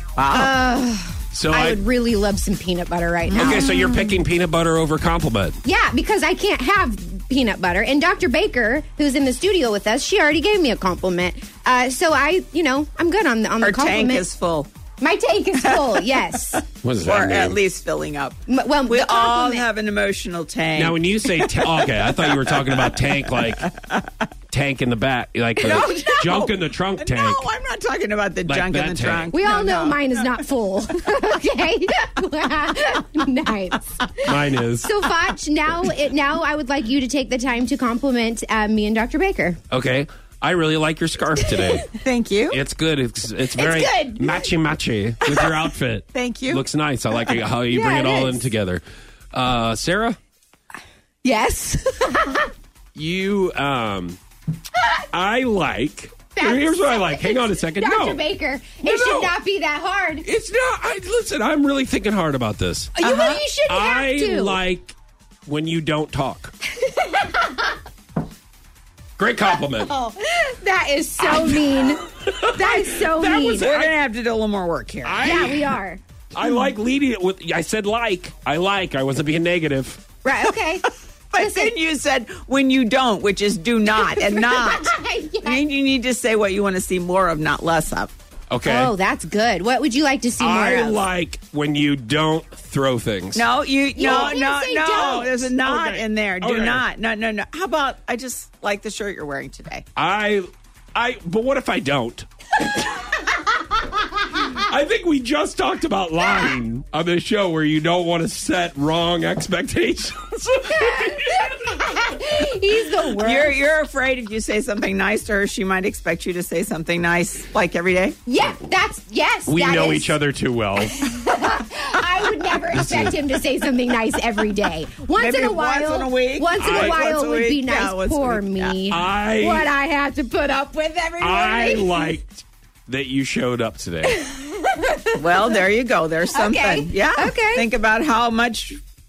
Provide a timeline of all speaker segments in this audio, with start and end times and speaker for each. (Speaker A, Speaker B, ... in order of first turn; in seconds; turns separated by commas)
Speaker A: 0.2-0.5, Speaker B: 0.3-3.7, Speaker C: 1.3-1.8, Speaker A: 3.3-4.2, Speaker C: 3.3-5.6, Speaker B: 5.6-14.3, Speaker A: 13.6-14.7, Speaker B: 15.0-16.6, Speaker A: 15.6-16.2, Speaker C: 16.8-17.6, Speaker A: 17.0-23.9, Speaker B: 18.5-19.7, Speaker C: 20.7-23.6, Speaker C: 24.5-27.4, Speaker A: 25.6-30.3, Speaker C: 28.4-29.3, Speaker B: 29.3-34.2, Speaker C: 34.2-34.9, Speaker B: 34.8-39.6, Speaker C: 39.7-41.9, Speaker B: 41.4-41.8, Speaker A: 41.9-42.6, Speaker C: 42.5-50.2, Speaker B: 43.5-44.5, Speaker A: 45.2-45.6, Speaker A: 46.1-46.6, Speaker B: 47.7-48.5, Speaker B: 51.2-52.5, Speaker C: 52.9-54.2, Speaker C: 55.1-58.2, Speaker B: 56.3-60.2, Speaker C: 58.8-59.4, Speaker C: 60.2-63.0, Speaker B: 63.0-64.6, Speaker A: 63.0-63.4, Speaker C: 63.7-66.5, Speaker B: 66.8-67.7, Speaker C: 69.2-69.9, Speaker B: 69.7-73.7, Speaker C: 71.2-74.0, Speaker A: 73.6-75.5, Speaker C: 75.0-75.8, Speaker B: 75.2-76.0, Speaker C: 76.3-80.0, Speaker A: 76.4-76.7, Speaker B: 80.2-81.7, Speaker A: 81.3-88.1, Speaker B: 83.9-85.6, Speaker C: 88.5-88.9, Speaker B: 88.6-91.0, Speaker C: 90.4-93.4, Speaker A: 93.3-99.8, Speaker B: 93.9-95.5, Speaker C: 95.1-96.8, Speaker C: 100.0-102.3, Speaker C: 104.3-111.6, Speaker B: 110.7-113.5, Speaker A: 113.1-118.2, Speaker B: 118.2-120.1, Speaker C: 119.5-121.0, Speaker B: 120.8-132.1, Speaker C: 122.7-123.2, Speaker A: 125.1-129.0, Speaker C: 126.6-127.0, Speaker C: 128.9-129.7, Speaker C: 131.2-134.2, Speaker B: 134.0-135.6, Speaker A: 135.2-138.8, Speaker B: 136.3-137.7